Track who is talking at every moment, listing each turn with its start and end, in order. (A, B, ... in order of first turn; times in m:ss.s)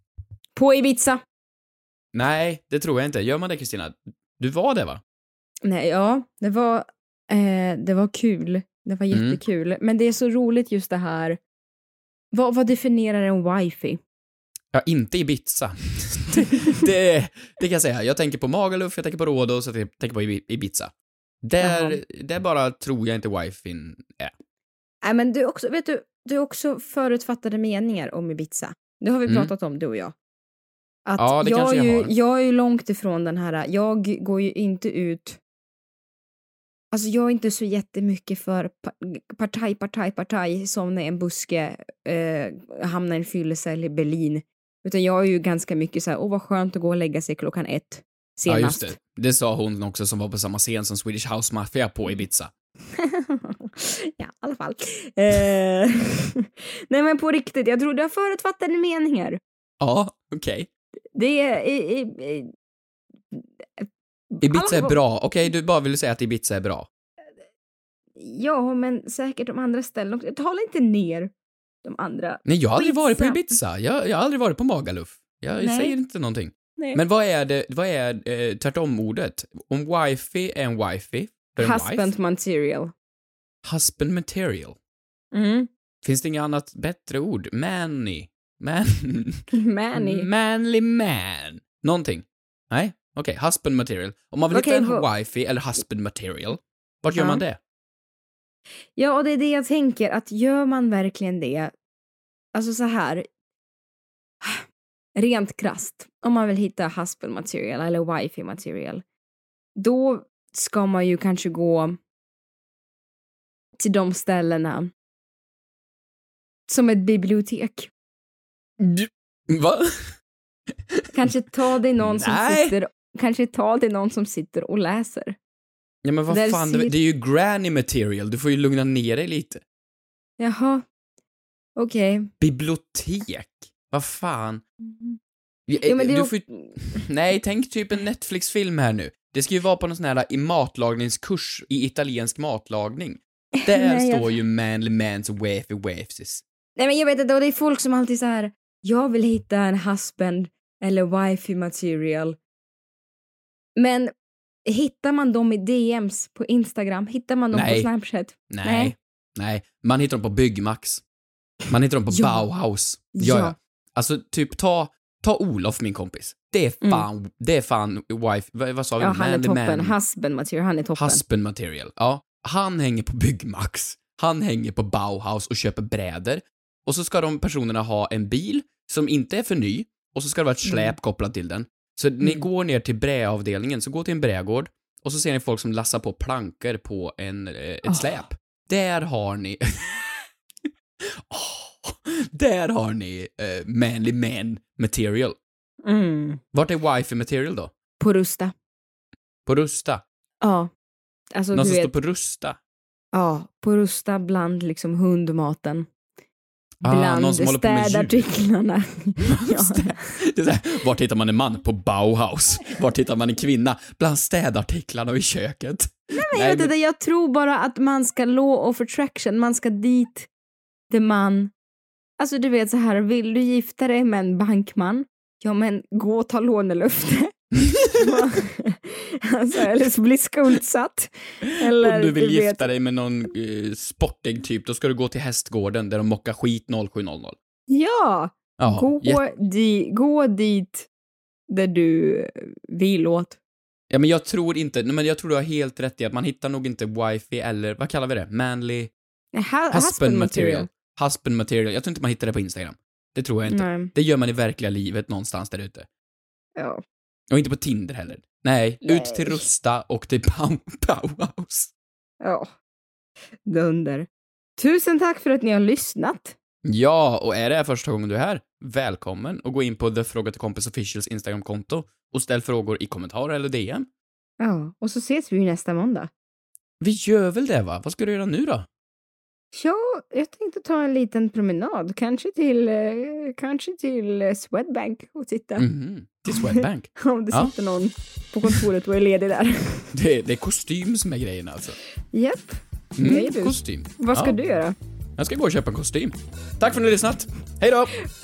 0:00.6-0:01.2 A
0:02.1-0:05.0 B
0:05.6-0:11.4 A
0:09.1-0:09.4 B
0:12.3-0:14.0 A
0:14.7-0:20.9 B
0:21.4-0:24.3 B
0:21.6-0:22.0 A
0:25.0-0:30.1 A
0:31.0-0:35.4 A
0:31.2-0:32.1 B
0:36.9-0:48.9 A
0:48.5-0:52.5 B
0:53.0-0:59.4 A
0:59.8-1:00.7 B
1:01.1-1:02.5 A
1:03.3-1:05.0 A
1:04.4-1:06.9 B
1:08.2-1:11.3 A
1:11.8-1:13.5 A
1:12.4-1:22.1 B
1:15.6-1:15.9 A
1:21.6-1:22.9 A
1:23.6-1:24.8 B
1:25.3-1:25.7 A
1:26.0-1:37.6 B
1:29.5-1:30.3 A
1:34.5-1:35.0 A
1:37.1-1:37.4 A
1:39.0-1:41.7 A
1:42.5-1:43.2 A
1:45.2-1:49.0 A
1:49.8-1:52.0 A
1:53.8-1:54.9 A
1:56.7-1:57.9 A
1:58.8-2:00.1 B
2:01.1-2:05.4 A
2:02.0-2:02.7 B
2:06.0-2:09.6 B
2:06.3-2:06.9 A
2:10.4-2:10.8 A
2:11.8-2:12.3 A
2:12.4-2:14.6 B
2:14.9-2:15.2 A
2:15.7-2:26.4 B
2:15.8-2:17.0 A
2:23.6-2:24.3 A
2:26.8-2:32.4 A
2:33.8-2:34.1 A
2:34.7-2:38.9 A
2:37.5-2:37.9 B
2:38.5-2:41.0 B
2:41.7-2:50.0 B
2:42.1-2:42.4 A
2:43.1-2:43.5 A
2:49.0-2:51.2 A
2:51.0-3:10.0 B
3:00.6-3:00.9 A
3:07.9-3:08.2 A
3:11.0-3:15.4 B
3:15.8-3:16.4 A
3:16.5-3:17.7 B
3:18.0-3:18.5 A
3:19.4-3:20.0 B
3:20.4-3:20.7 A
3:21.3-3:21.9 A
3:21.5-3:22.6 B
3:23.1-3:25.9 A
3:26.8-3:28.2 B
3:26.8-3:30.0 A
3:29.2-3:36.7 B
3:36.2-3:40.3 A
3:40.9-3:41.5 A
3:42.2-3:52.7 A
3:51.7-3:57.4 B
3:57.7-4:00.9 A
3:58.6-3:59.2 B
4:01.5-4:03.4 A
4:03.9-4:08.9 B
4:09.3-4:10.7 A
4:09.7-4:15.9 B
4:13.5-4:13.9 A
4:16.6-4:16.8 A
4:17.3-4:21.7 B
4:18.8-4:19.4 A
4:22.2-4:22.5 A
4:23.4-4:24.1 A
4:24.6-4:26.4 A
4:26.6-4:33.9 B
4:34.4-4:36.1 A
4:36.8-4:38.7 B
4:39.5-4:45.6 A
4:45.6-4:47.5 B
4:46.3-4:49.9 A
4:49.9-4:51.8 B
4:52.1-4:54.8 A
4:53.0-4:54.4 B
4:55.2-4:58.0 B